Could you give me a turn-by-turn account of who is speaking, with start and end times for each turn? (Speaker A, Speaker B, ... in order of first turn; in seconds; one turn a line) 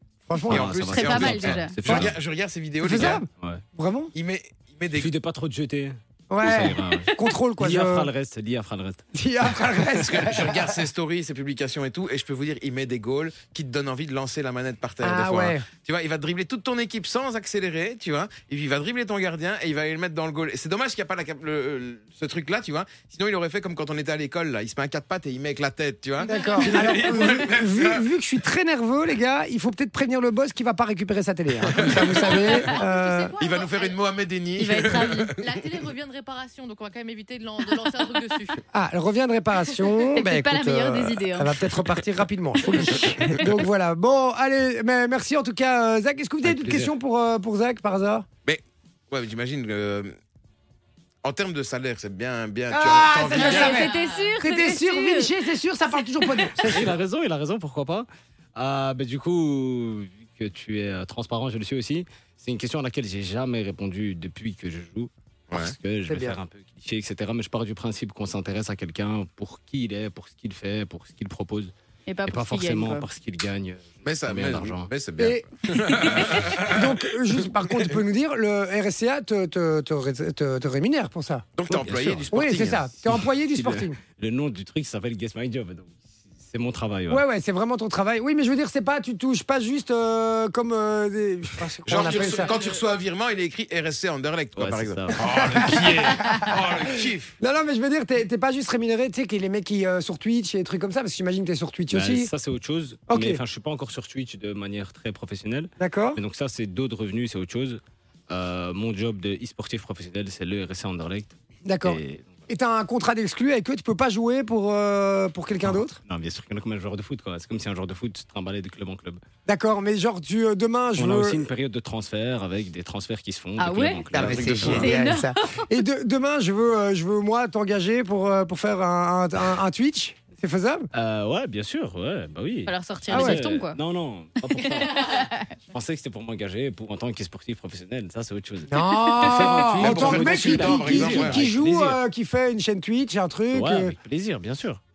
Speaker A: 0.3-0.9
Speaker B: 0.5-2.1
Speaker C: 0.5-3.2
Speaker D: 0.9-1.8
Speaker A: 2.8-4.1
Speaker B: 3.0-3.6
Speaker C: 4.1-5.1
Speaker B: 4.9-9.0
Speaker A: 6.3-8.1
Speaker A: 9.2-10.8
Speaker C: 10.0-28.0
Speaker A: 15.0-15.7
Speaker A: 26.3-33.3
Speaker C: 31.6-32.6
Speaker E: 32.1-34.0
Speaker C: 33.4-35.5
Speaker D: 34.6-35.3
Speaker E: 34.9-38.6
Speaker A: 38.7-48.3
Speaker D: 40.0-41.6
Speaker D: 43.0-43.4
Speaker B: 46.4-46.9
Speaker C: 48.5-50.1
Speaker C: 51.2-53.9
Speaker A: 52.7-57.0
Speaker D: 53.3-55.3
Speaker E: 53.4-54.4
Speaker B: 56.6-71.7
Speaker C: 65.5-65.8
Speaker A: 66.1-66.4
Speaker D: 72.1-73.1
Speaker B: 72.3-74.9
Speaker C: 74.0-76.9
Speaker A: 75.2-75.4
Speaker A: 76.6-81.5
Speaker C: 81.6-82.9
Speaker B: 81.7-82.3
Speaker A: 82.3-84.0
Speaker B: 83.1-87.2
Speaker A: 87.1-92.5
Speaker C: 91.9-97.4
Speaker E: 92.1-92.8
Speaker B: 94.5-95.2
Speaker A: 95.1-96.5
Speaker A: 97.4-102.3
Speaker B: 101.9-112.4
Speaker A: 103.1-103.4
Speaker A: 105.8-106.2
Speaker A: 111.7-116.0
Speaker B: 115.6-119.2
Speaker A: 119.5-121.5
Speaker B: 121.0-124.9
Speaker D: 123.6-124.1
Speaker A: 124.1-130.9
Speaker C: 124.1-125.0
Speaker D: 124.8-125.6
Speaker B: 130.9-142.0
Speaker D: 132.7-133.8
Speaker A: 133.1-133.4
Speaker D: 134.5-135.4
Speaker A: 138.7-143.9
Speaker C: 139.8-141.5
Speaker B: 143.5-144.8